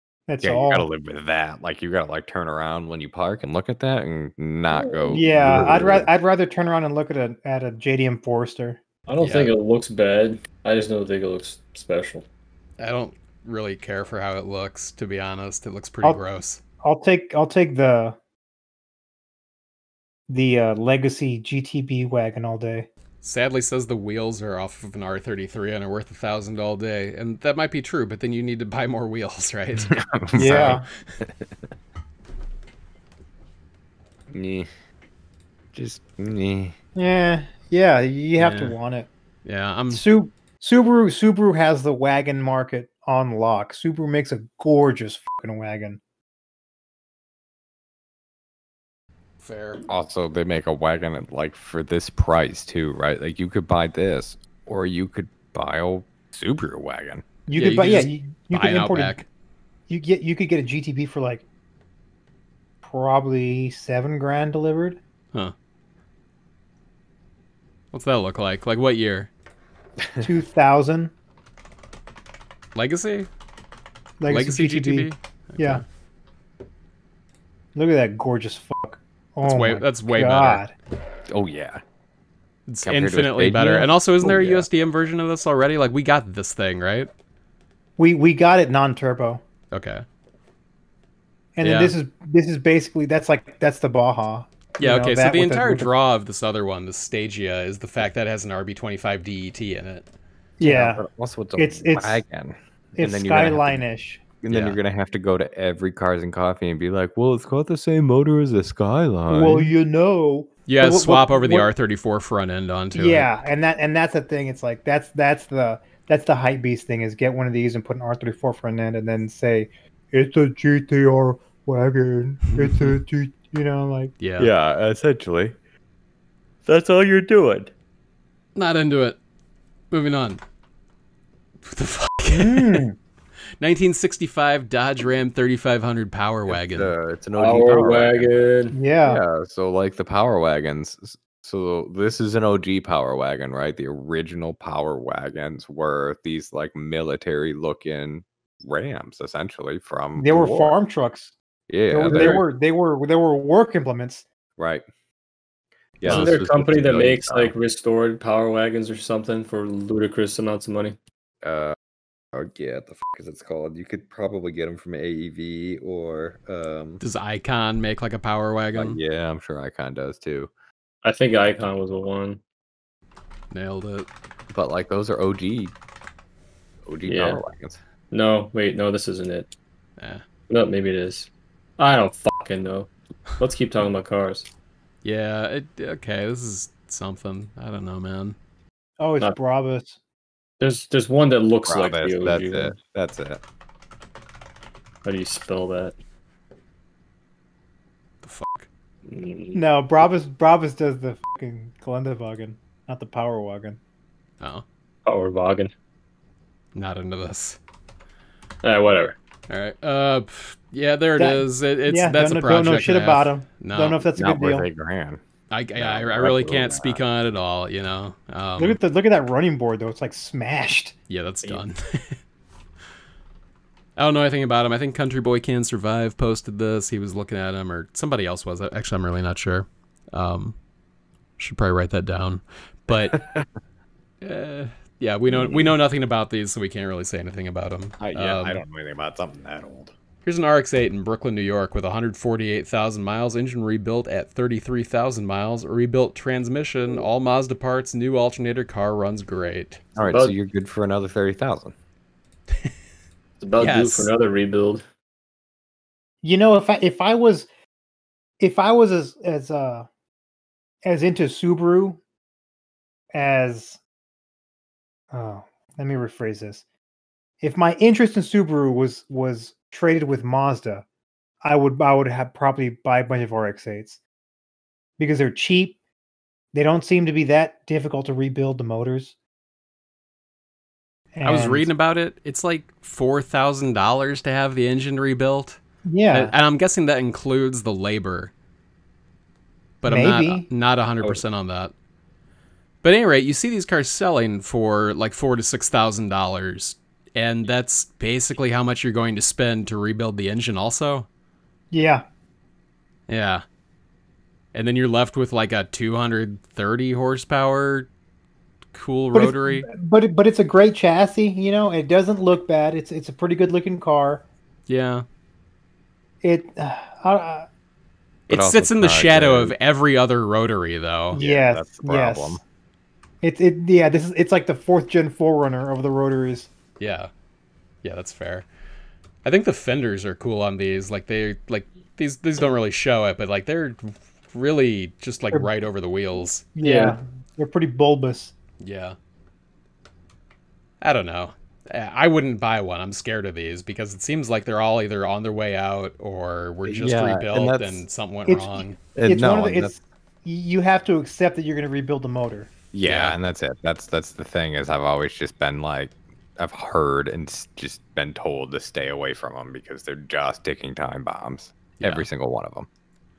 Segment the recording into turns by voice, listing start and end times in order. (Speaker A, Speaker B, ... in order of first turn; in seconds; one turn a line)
Speaker A: 0.3-0.9
Speaker B: 0.4-6.1
Speaker C: 4.7-5.3
Speaker A: 5.1-8.8
Speaker C: 9.1-12.3
Speaker D: 9.2-9.5
Speaker D: 12.8-16.6
Speaker A: 16.8-18.2
Speaker A: 20.3-22.9
Speaker D: 23.2-30.7
Speaker B: 29.9-31.6
Speaker A: 30.4-30.8
Speaker B: 34.3-34.7
Speaker B: 35.7-36.8
Speaker A: 37.0-39.1
Speaker D: 38.4-38.8
Speaker D: 39.5-40.0
Speaker A: 39.9-46.0
Speaker D: 49.4-49.8
Speaker B: 49.9-57.2
Speaker A: 57.5-59.2
Speaker D: 57.6-59.3
Speaker A: 59.9-61.5
Speaker A: 62.8-65.0
Speaker D: 67.9-69.3
Speaker B: 70.0-70.3
Speaker A: 70.2-71.1
Speaker D: 72.8-73.3
Speaker A: 74.2-75.8
Speaker D: 74.3-75.8
Speaker A: 77.8-80.7
Speaker D: 79.4-80.6
Speaker B: 81.3-81.8
Speaker D: 82.7-87.1
Speaker B: 82.8-84.7
Speaker A: 88.0-89.4
Speaker D: 89.7-90.0
Speaker A: 91.6-95.9
Speaker D: 91.6-92.0
Speaker D: 94.8-100.1
Speaker A: 100.6-101.0
Speaker B: 100.6-103.8
Speaker A: 101.6-102.2
Speaker A: 103.0-104.2
Speaker B: 104.4-109.7
Speaker D: 104.5-104.8
Speaker A: 109.3-111.7
Speaker D: 110.7-113.3
Speaker A: 112.9-124.2
Speaker D: 122.6-123.0
Speaker D: 124.2-124.5
Speaker B: 124.4-125.6
Speaker B: 126.7-127.7
Speaker D: 128.6-129.2
Speaker D: 129.9-130.4
Speaker D: 131.7-132.8
Speaker A: 132.3-133.0
Speaker D: 133.6-136.9
Speaker B: 136.5-138.3
Speaker C: 137.3-138.8
Speaker A: 138.7-139.2
Speaker B: 139.0-150.7
Speaker A: 150.2-151.3
Speaker B: 151.7-152.4
Speaker A: 151.9-154.2
Speaker D: 152.1-152.4
Speaker B: 154.6-154.8
Speaker D: 156.0-156.3
Speaker B: 156.0-157.6
Speaker C: 156.0-161.0
Speaker B: 161.4-161.8
Speaker B: 162.3-167.0
Speaker D: 167.0-169.0
Speaker B: 168.8-170.5
Speaker C: 171.0-172.4
Speaker D: 173.5-174.1
Speaker B: 174.5-175.7
Speaker B: 176.9-177.8
Speaker C: 177.0-177.4
Speaker C: 178.1-179.5
Speaker D: 180.0-180.2
Speaker C: 180.5-184.5
Speaker D: 185.0-188.4
Speaker A: 189.0-190.0
Speaker C: 190.6-192.8
Speaker B: 191.7-193.4
Speaker C: 195.1-195.9
Speaker D: 198.2-198.7
Speaker C: 199.1-199.6
Speaker A: 199.6-203.8
Speaker D: 204.4-204.7
Speaker C: 205.1-205.7
Speaker D: 206.8-207.6
Speaker C: 208.6-209.2
Speaker D: 209.5-214.0
Speaker A: 211.2-214.7
Speaker B: 214.2-215.2
Speaker D: 215.5-218.8
Speaker B: 215.8-217.0
Speaker A: 218.6-220.9
Speaker D: 221.1-222.2
Speaker D: 224.0-230.6
Speaker D: 231.4-233.2
Speaker B: 232.9-233.5
Speaker D: 234.2-238.6
Speaker B: 235.3-235.7
Speaker B: 238.0-239.9
Speaker D: 240.2-249.8
Speaker B: 250.0-251.7
Speaker C: 250.0-250.4
Speaker C: 253.4-254.8
Speaker D: 253.6-254.1
Speaker A: 256.2-257.5
Speaker A: 258.4-259.9
Speaker A: 260.8-262.0
Speaker A: 263.1-263.8
Speaker A: 265.1-266.6
Speaker A: 267.4-270.9
Speaker A: 271.4-274.0
Speaker A: 275.0-275.8
Speaker A: 276.5-279.2
Speaker A: 281.1-281.7
Speaker D: 281.2-288.3
Speaker A: 285.9-286.3
Speaker D: 289.8-291.7
Speaker A: 289.9-290.5
Speaker D: 292.8-301.1
Speaker A: 301.7-302.1
Speaker D: 303.1-303.4
Speaker D: 304.5-307.9
Speaker D: 308.7-309.7
Speaker A: 309.1-314.2
Speaker D: 314.7-315.0
Speaker A: 316.2-317.5
Speaker B: 318.3-319.6
Speaker D: 318.3-321.2
Speaker A: 321.1-322.4
Speaker B: 321.2-322.4
Speaker A: 323.2-326.5
Speaker D: 326.8-327.1
Speaker D: 327.8-328.5
Speaker D: 329.2-336.5
Speaker A: 336.6-338.3
Speaker C: 336.6-336.9
Speaker D: 338.6-339.0
Speaker D: 340.8-348.8
Speaker B: 346.6-347.8
Speaker A: 348.3-352.5
Speaker B: 348.9-349.7
Speaker B: 352.7-362.7
Speaker D: 352.9-353.2
Speaker D: 361.8-362.1